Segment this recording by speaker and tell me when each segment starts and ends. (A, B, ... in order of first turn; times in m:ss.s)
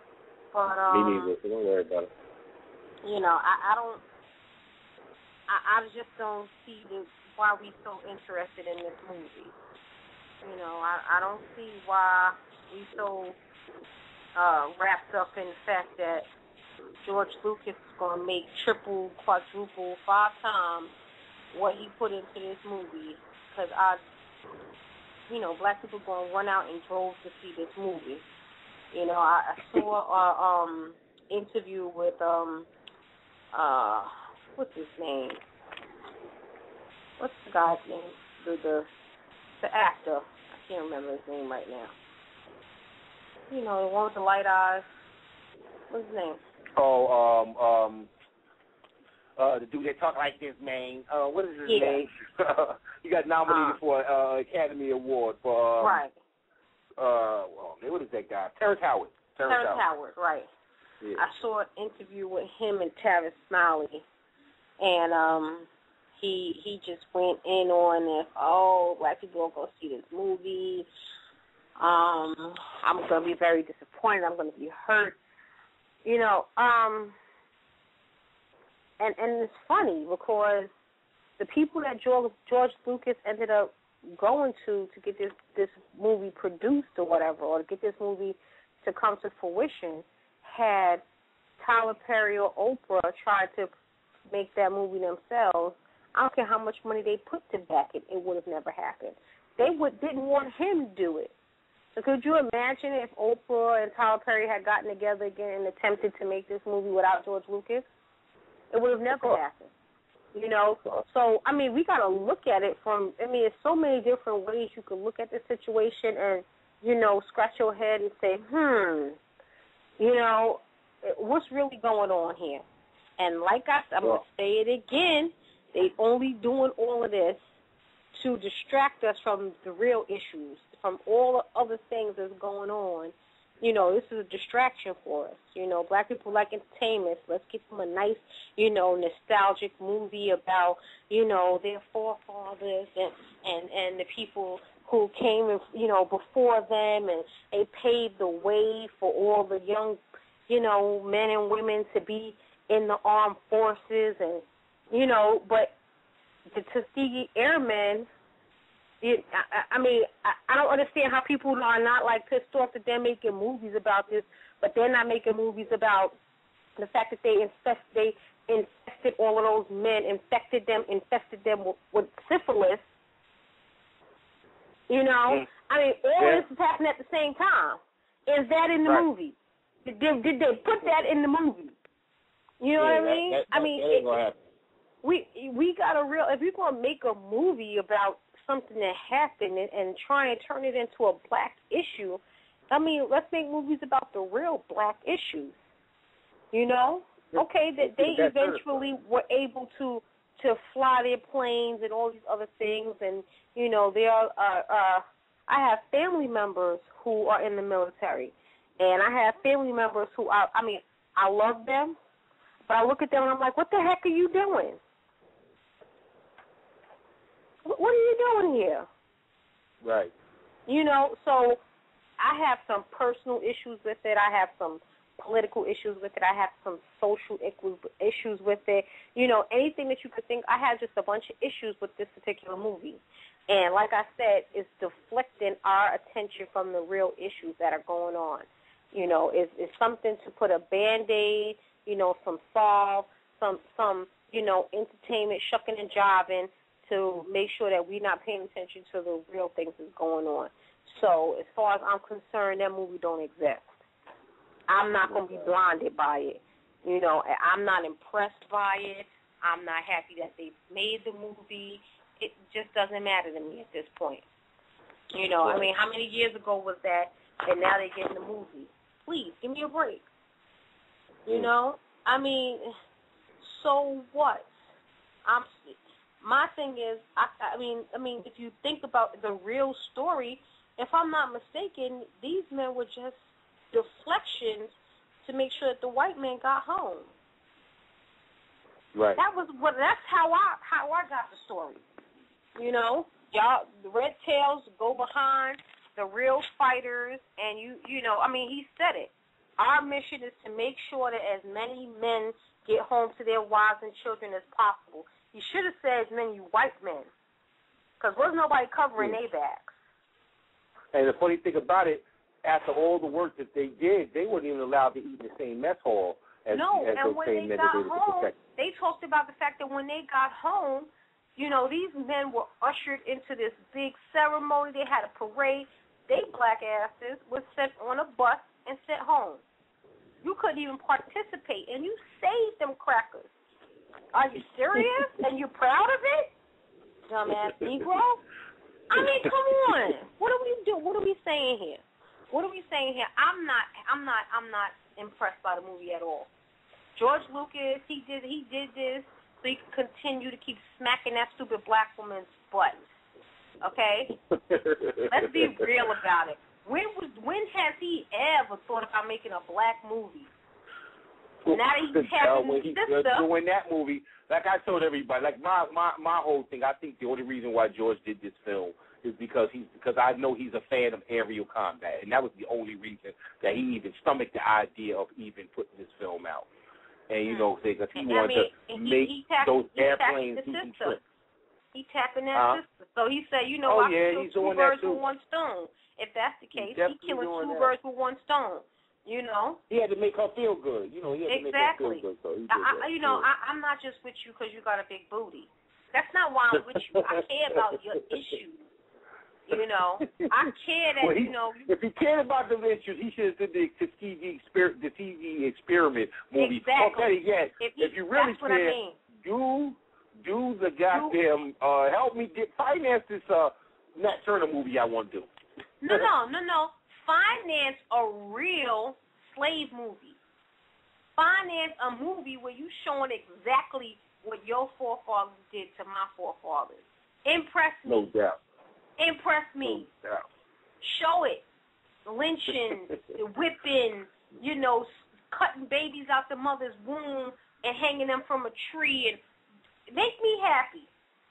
0:00.5-0:01.3 A
0:00.9-0:02.1 B
0:03.0-0:04.0 A
0:05.5-0:09.5 A
0:10.4-0:13.4 A
0:14.4-0:16.3 A
0:17.0-0:20.9 A
0:21.5-0:24.0 A
0:25.3-0:28.2 A
0:28.9-0:32.7 A
0:33.5-0:35.4 A
0:37.2-0:38.9 A
0:39.6-0:41.9 A
0:43.5-0:44.8 A
0:45.9-0:46.4 A
0:46.8-0:48.1 B
0:49.4-0:56.0 B
0:51.7-0:52.0 A
0:53.5-0:53.8 A
0:55.8-0:56.2 A
0:57.0-0:59.8 B
0:59.5-1:00.5 A
1:01.2-1:04.1 A
1:04.8-1:10.9 A
1:11.8-1:15.2 A
1:16.0-1:17.2 A
1:19.0-1:20.7 A
1:21.4-1:31.0 A
1:31.6-1:33.7 A
1:34.3-1:41.3 A
1:41.9-1:47.9 A
1:48.7-1:49.7 A
1:49.1-1:49.4 B
1:50.3-1:59.2 A
2:00.0-2:02.6 A
2:03.2-2:07.6 A
2:08.1-2:35.8 A
2:36.5-2:38.1 A
2:39.0-2:46.2 A
2:46.8-2:52.8 A
2:54.9-3:01.8 A
2:56.2-2:56.5 B
3:02.6-3:04.1 A
3:02.8-3:04.4 B
3:05.0-3:15.6 A
3:16.5-3:32.0 A
3:17.3-3:18.8 B
3:32.7-3:34.8 A
3:37.6-3:38.9 A
3:39.8-3:40.1 B
3:40.7-3:41.6 A
3:42.2-4:13.8 A
4:14.7-4:24.2 A
4:15.0-4:15.6 B
4:25.1-4:30.1 A
4:25.4-4:25.7 B
4:31.3-4:32.7 A
4:33.4-4:34.5 A
4:35.3-4:43.2 A
4:43.7-4:47.1 A
4:49.0-4:49.2 B
4:49.2-4:51.8 A
4:52.6-5:07.1 A
5:08.0-5:09.7 A
5:10.9-5:18.4 B
5:16.5-5:29.4 A
5:30.2-5:33.3 A
5:34.1-5:36.3 A
5:37.1-5:38.2 A
5:38.9-5:46.3 A
5:39.0-5:39.3 B
5:47.0-5:52.8 A
5:53.6-5:54.2 A
5:54.5-5:55.1 B
5:55.1-6:00.3 A
6:01.4-6:16.5 B
6:01.5-6:03.3 A
6:17.1-6:21.0 B
6:17.3-6:21.0 A
6:21.7-6:29.6 A
6:22.3-6:22.6 B
6:23.6-6:25.0 B
6:26.6-6:27.7 B
6:29.7-6:33.3 B
6:31.3-6:38.7 A
6:36.8-6:37.0 B
6:39.5-6:41.7 A
6:41.0-6:55.3 B
6:46.4-6:49.0 A
6:50.9-6:51.2 A
6:55.8-7:00.2 A
7:01.2-7:08.1 A
7:07.9-7:08.4 B
7:09.0-7:09.9 A
7:09.6-7:10.2 B
7:10.8-7:11.4 A
7:12.1-7:19.2 A
7:19.9-7:20.9 A